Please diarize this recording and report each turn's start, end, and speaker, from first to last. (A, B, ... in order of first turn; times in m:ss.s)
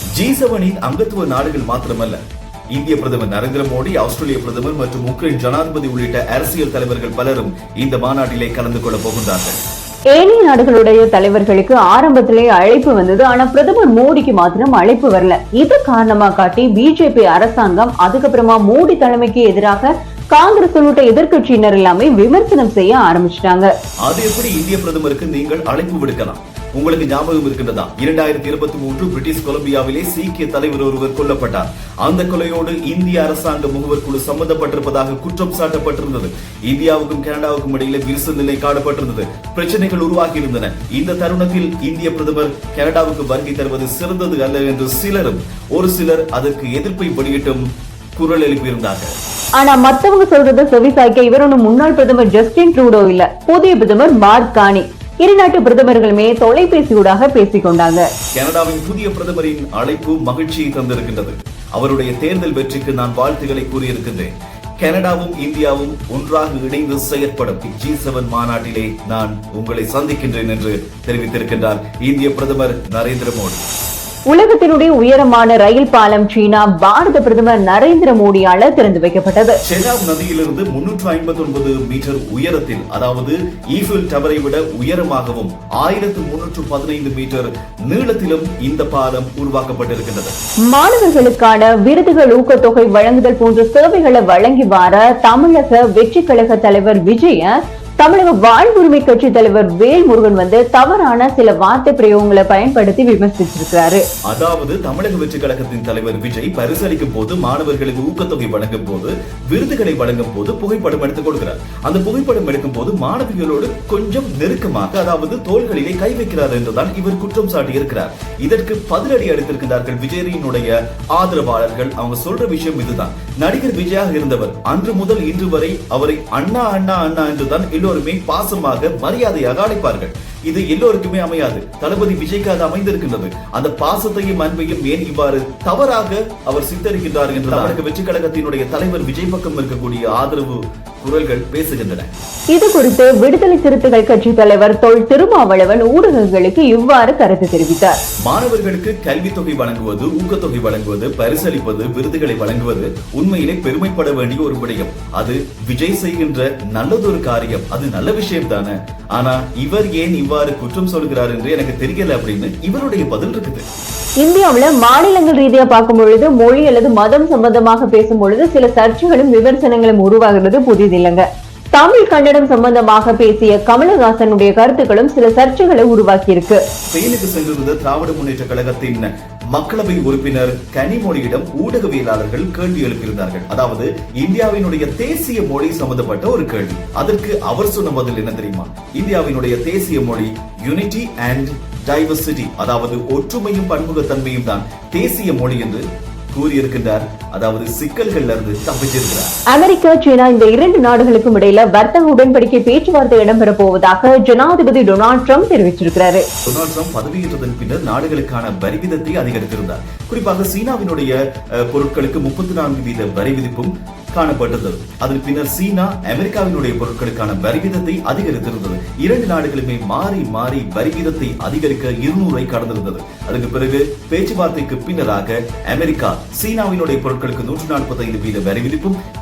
0:00.2-0:02.2 A
0:02.7-0:09.6 A
0:10.1-0:23.7 B
0:24.0-0:47.6 A
0:48.2-0:49.1 A
0:49.6-0:58.1 B
0:58.3-1:13.6 A
1:14.3-1:19.6 B
1:19.6-1:30.3 A
1:30.7-1:44.0 B
1:44.3-2:22.1 A
2:22.5-2:28.0 B
2:28.3-2:43.7 A
2:44.2-2:56.6 B
2:56.9-3:19.3 A
3:19.5-3:26.3 B
3:26.5-3:49.0 A